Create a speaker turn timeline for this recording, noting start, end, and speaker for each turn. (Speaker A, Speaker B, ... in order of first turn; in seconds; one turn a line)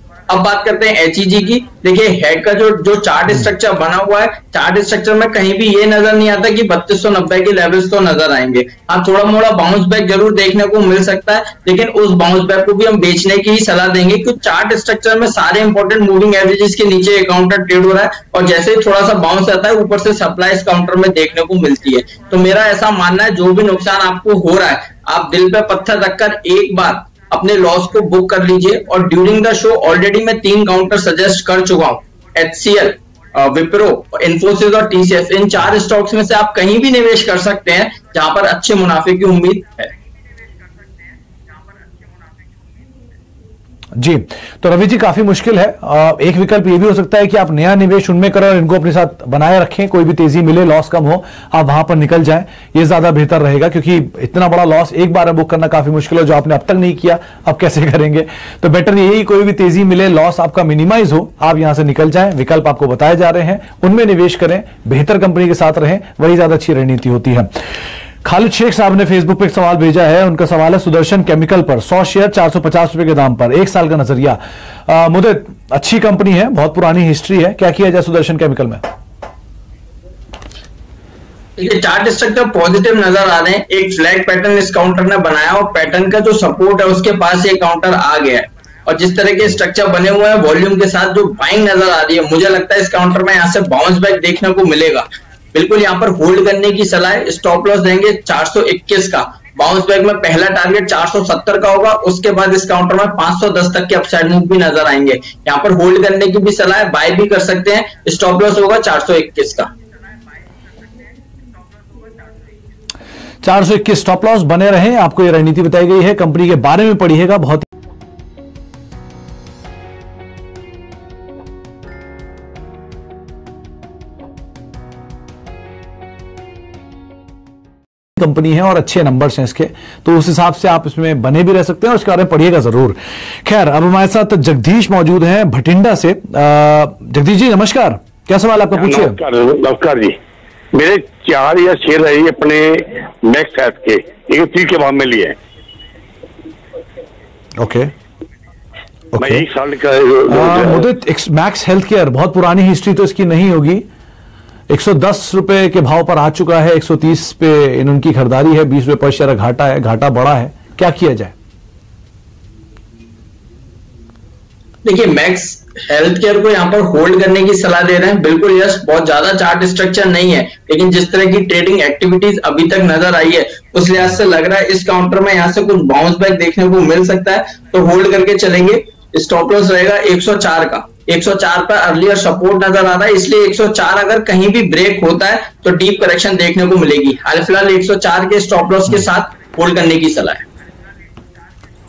Speaker A: 0.3-39.9
Speaker B: 44.0-67.5
Speaker B: 68.2-78.8
Speaker A: 81.6-109.7
Speaker B: 113.4-117.7
Speaker B: 128.2-139.2
Speaker C: 138.7-140.2
Speaker C: 140.7-145.3
Speaker B: 147.6-147.9
Speaker B: 149.1-149.4
Speaker C: 149.2-150.9
Speaker B: 150.3-153.8
Speaker B: 154.7-161.3
Speaker A: 164.8-190.4